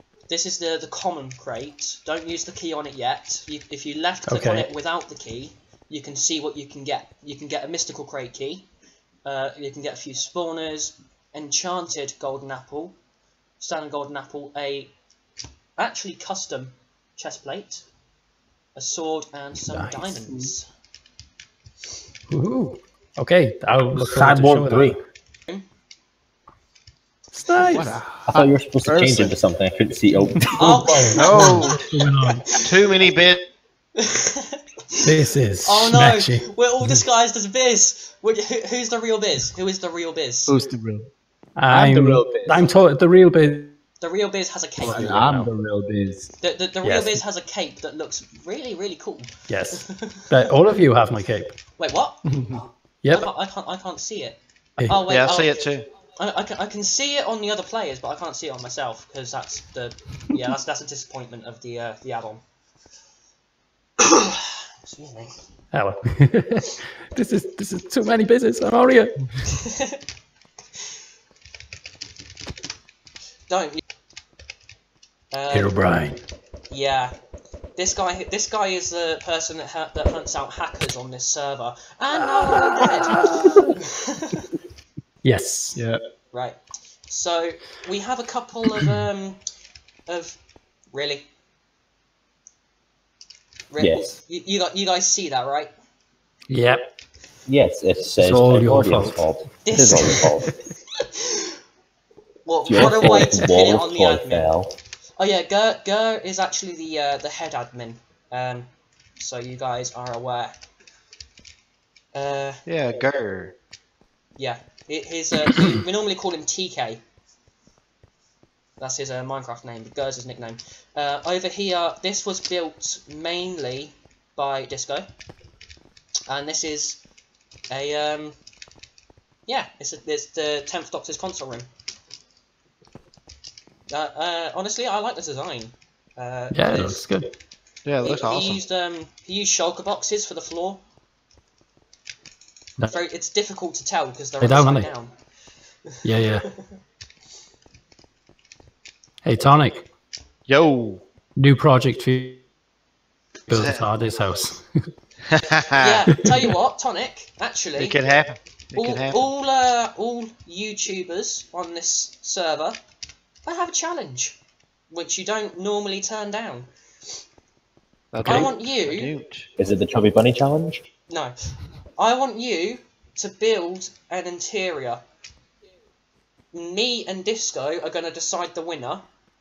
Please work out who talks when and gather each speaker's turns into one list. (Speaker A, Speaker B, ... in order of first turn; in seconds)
Speaker A: 0.3-8.7, 9.2-12.9, 13.6-14.9, 15.8-17.8, 18.8-20.6, 30.5-31.9, 34.0-35.1, 35.6-40.5, 44.0-45.2, 46.4-50.5, 51.8-52.2, 53.1-55.6, 56.2-62.4, 64.0-65.3, 69.5-70.0, 73.5-73.8, 75.3-75.8, 76.7-77.1, 77.8-84.5, 86.3-89.4, 90.1-90.4, 90.9-91.2, 93.7-95.7, 99.6-100.3, 101.0-101.5, 102.5-104.5, 105.2-110.5, 112.1-112.6, 114.4-117.0, 118.8-125.1, 126.3-127.0, 127.7-128.4, 129.5-131.7, 133.9-137.0, 138.0-140.8, 142.9-145.1, 155.8-157.9, 158.7-162.8, 163.4-164.4, 164.9-166.7, 168.2-169.1, 171.1-171.3, 172.0-175.0, 176.5-179.0
Speaker B: 4.3-4.7, 19.7-20.5, 22.3-25.0, 27.3-28.0, 31.2-32.5, 35.0-37.0, 41.6-43.8, 44.8-45.5, 46.8-47.2, 49.5-51.5, 53.0-53.3, 65.7-69.4, 75.5-76.2, 82.1-83.7, 85.2-85.8, 96.5-96.8, 98.2-99.2, 102.8-103.1, 136.5-137.3, 144.4-144.9, 146.0-146.5, 149.2-149.8, 151.4-152.4, 153.5-154.7, 168.2-168.5
Speaker C: 23.9-25.0, 27.6-29.4, 40.5-41.1, 41.7-42.7, 44.8-46.3, 52.3-52.6, 85.7-86.0
Speaker D: 28.3-31.2, 93.8-94.1, 97.5-100.5, 102.7-104.7, 169.6-170.8
Speaker E: 31.1-31.8, 32.5-33.4, 55.1-55.9, 112.7-113.5, 137.8-138.6, 150.5-151.0, 153.5-153.8, 155.3-156.1, 157.8-159.2, 168.1-169.5